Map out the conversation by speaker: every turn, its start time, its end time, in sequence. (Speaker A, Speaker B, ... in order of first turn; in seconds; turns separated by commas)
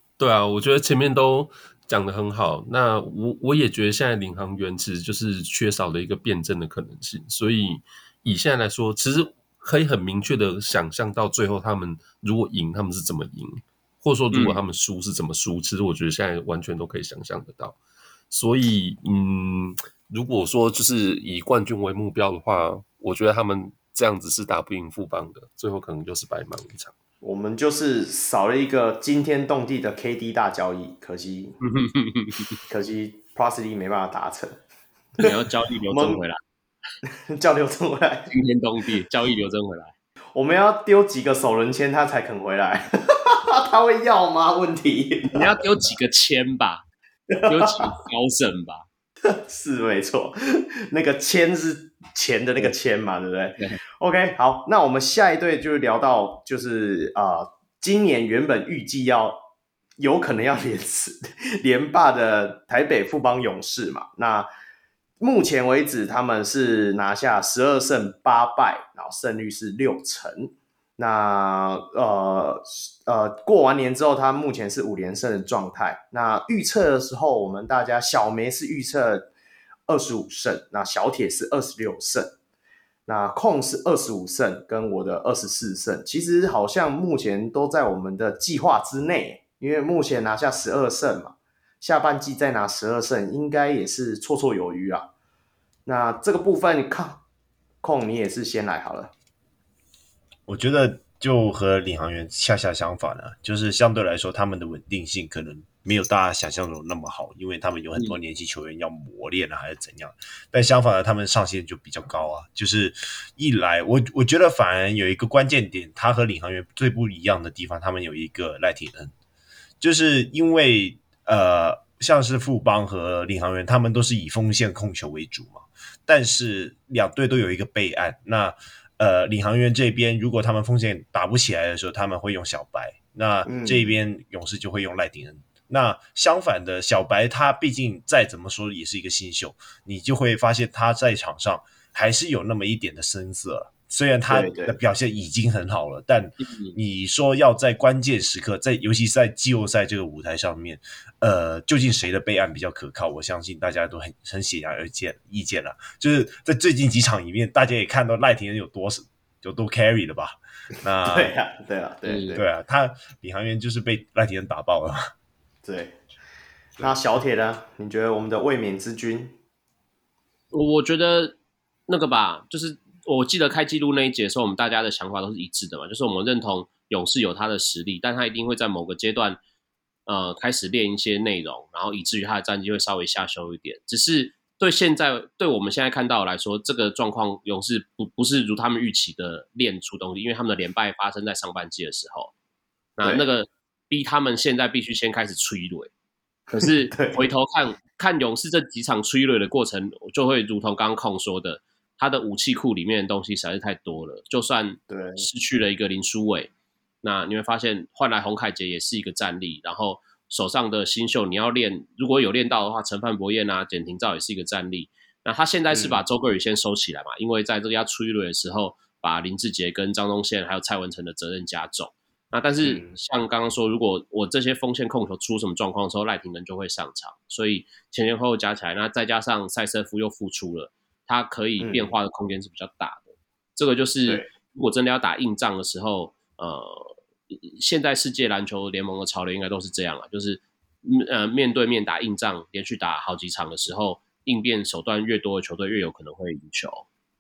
Speaker A: 0.2-17.8, Speaker B: 14.3-14.6, Speaker A: 18.3-26.9, Speaker C: 27.2-31.6, Speaker B: 31.6-32.6, Speaker C: 32.7-34.6, Speaker B: 35.2-36.4, Speaker C: 35.9-36.2, Speaker C: 37.1-38.3, Speaker B: 38.3-39.9, Speaker C: 40.3-45.6, Speaker B: 45.3-46.9, Speaker C: 47.3-47.9, Speaker B: 47.5-48.9, Speaker C: 49.2-59.4, Speaker C: 60.0-64.5, Speaker C: 65.2-79.3, Speaker C: 79.9-82.3, Speaker C: 83.1-95.1, Speaker C: 95.9-97.2, Speaker C: 97.8-99.1, Speaker D: 100.5-119.1, Speaker D: 119.8-161.3, Speaker C: 133.4-134.0, Speaker C: 144.3-144.8, Speaker B: 146.4-146.8, Speaker C: 161.1-162.5, Speaker B: 162.1-162.4, Speaker D: 162.3-165.1, Speaker C: 165.6-166.0, Speaker C: 166.8-169.3, Speaker B: 170.5-171.4, Speaker B: 171.9-179.4, Speaker B: 180.1-192.3, Speaker B: 193.0-195.9, Speaker B: 196.5-206.5, Speaker C: 196.8-197.3, Speaker C: 204.9-205.3, Speaker B: 207.0-233.0, Speaker C: 215.7-216.0, Speaker C: 222.6-222.9, Speaker C: 231.6-231.9, Speaker B: 233.6-246.8